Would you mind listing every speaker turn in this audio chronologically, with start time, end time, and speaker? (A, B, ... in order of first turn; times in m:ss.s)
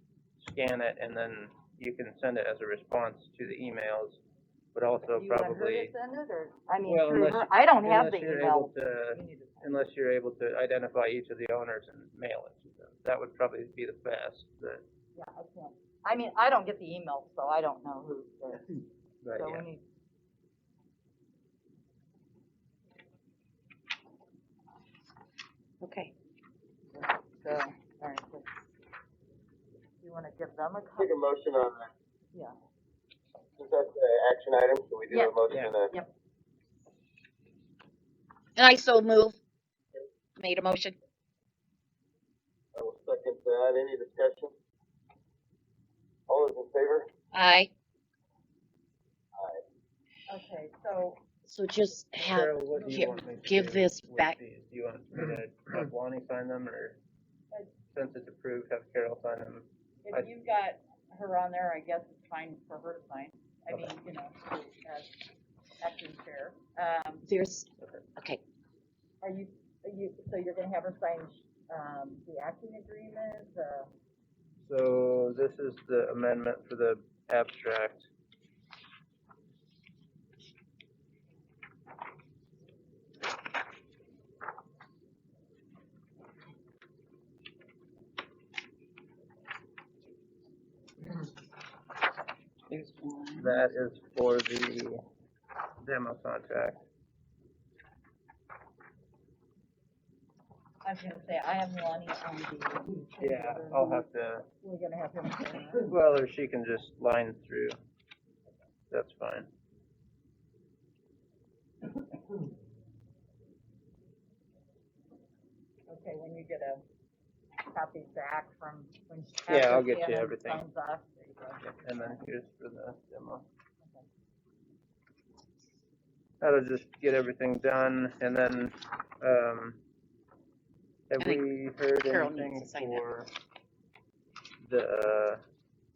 0:00.4-0:04.2 A
0:04.8-0:05.9 A
0:05.1-0:09.8 B
0:06.8-0:14.8 A
0:15.2-0:18.8 B
0:19.2-0:19.7 A
0:19.4-0:19.8 B
0:25.8-0:26.1 C
0:26.9-0:28.5 B
0:30.0-0:31.2 B
0:31.0-0:31.9 D
0:33.6-0:35.9 D
0:38.6-0:39.4 C
0:40.4-0:40.9 C
0:42.8-0:44.5 D
0:46.3-0:47.1 D
0:47.3-0:47.7 C
0:49.4-0:49.6 D
0:50.3-0:51.2 B
0:51.5-0:54.4 C
0:52.2-0:57.0 A
0:57.9-1:00.3 A
1:00.0-1:05.2 B
1:05.8-1:07.3 B
1:07.3-1:08.4 C
1:09.2-1:13.9 B
1:14.7-1:18.1 A
1:33.4-1:35.0 A
1:35.8-1:36.8 A
1:40.8-1:44.1 B
1:43.2-1:44.5 A
1:44.6-1:45.9 B
1:45.8-1:47.8 A
1:48.9-1:49.5 A
1:55.9-1:56.8 B
1:57.6-2:02.2 B
1:59.5-2:00.6 A
2:01.6-2:03.4 A
2:06.4-2:09.8 A
2:11.1-2:13.3 A
2:12.1-2:13.0 C
2:14.6-2:15.4 A